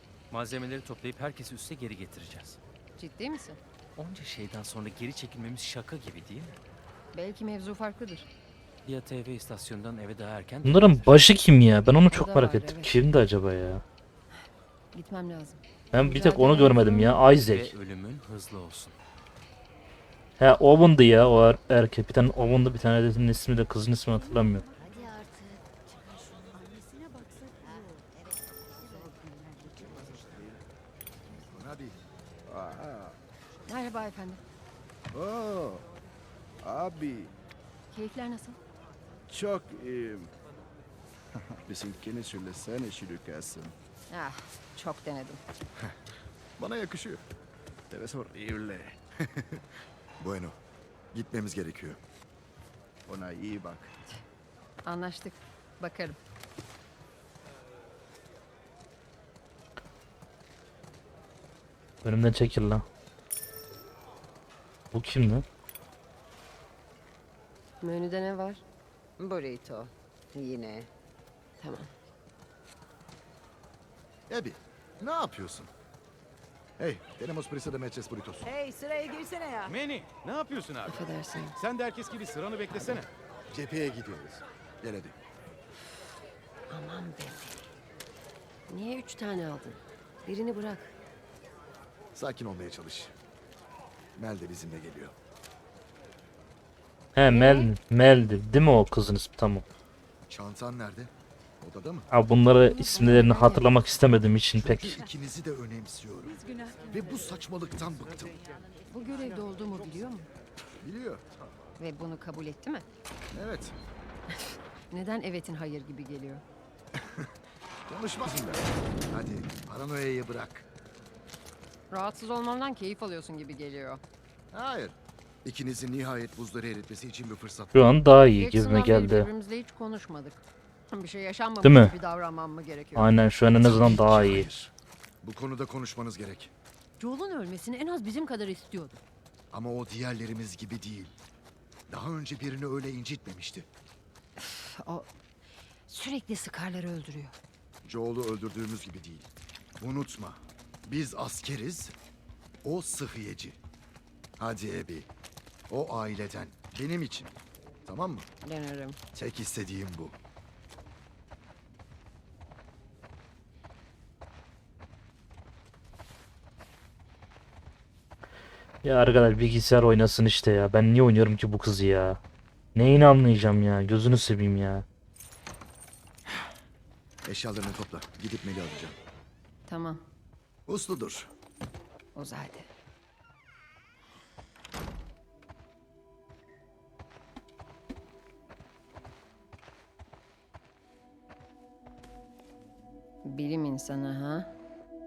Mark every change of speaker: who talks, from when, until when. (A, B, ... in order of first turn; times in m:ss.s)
0:00.3-0:02.6 A
0:03.0-0:03.6 B
0:04.0-0:06.6 A
0:07.1-0:08.3 B
0:08.8-0:11.2 A
0:10.6-0:13.8 C
0:12.1-0:12.9 B
0:14.9-0:17.2 B
0:15.9-0:17.7 C
0:17.3-0:19.0 A
0:20.4-0:24.6 C
0:29.7-0:30.6 D
0:31.3-0:32.0 D
0:32.5-0:33.2 E
0:33.7-0:34.4 B
0:35.1-0:35.8 E
0:36.6-0:37.3 E
0:37.9-0:38.6 B
0:39.3-0:40.3 E
0:41.5-0:43.7 E
0:44.1-0:45.4 B
0:46.6-0:47.2 D
0:47.9-0:49.0 E
0:49.2-0:49.6 D
0:50.2-0:50.6 D
0:51.1-0:52.0 D
0:53.0-0:53.9 E
0:54.8-0:56.2 B
1:02.0-1:02.8 C
1:04.9-1:05.4 C
1:07.8-1:08.6 B
1:09.2-1:10.9 B
1:11.6-1:11.9 B
1:14.3-1:15.7 D
1:16.8-1:18.5 D
1:19.5-1:23.1 F
1:20.8-1:21.6 B
1:23.5-1:25.2 D
1:26.7-1:27.6 B
1:28.7-1:30.9 B
1:32.1-1:33.1 D
1:34.2-1:35.1 D
1:37.2-1:39.6 C
1:37.3-1:37.7 B
1:40.3-1:42.1 D
1:42.1-1:45.0 C
1:42.6-1:43.7 B
1:44.6-1:48.4 D
1:48.9-1:50.3 B
1:50.8-1:51.2 D
1:51.8-1:52.8 B
1:53.3-1:53.8 D
1:54.3-1:56.4 B
1:56.9-1:57.3 D
1:57.9-2:00.7 D
2:01.9-2:04.0 B
2:04.5-2:07.9 D
2:07.7-2:09.3 C
2:08.4-2:13.1 B
2:11.6-2:11.9 C
2:13.0-2:14.5 C
2:13.5-2:16.5 D
2:17.0-2:19.0 B
2:19.5-2:21.1 D
2:21.9-2:23.7 D
2:24.4-2:25.1 B
2:25.9-2:27.3 B
2:27.8-2:31.9 D
2:32.6-2:33.6 D
2:34.4-2:35.1 D
2:35.7-2:38.3 D
2:38.4-2:39.0 B
2:39.1-2:40.2 D
2:48.8-2:52.2 C
2:52.7-2:54.8 C
2:57.2-2:59.0 D
2:59.7-3:00.0 B
3:00.7-3:01.3 D
3:02.1-3:02.7 B
3:13.2-3:14.5 B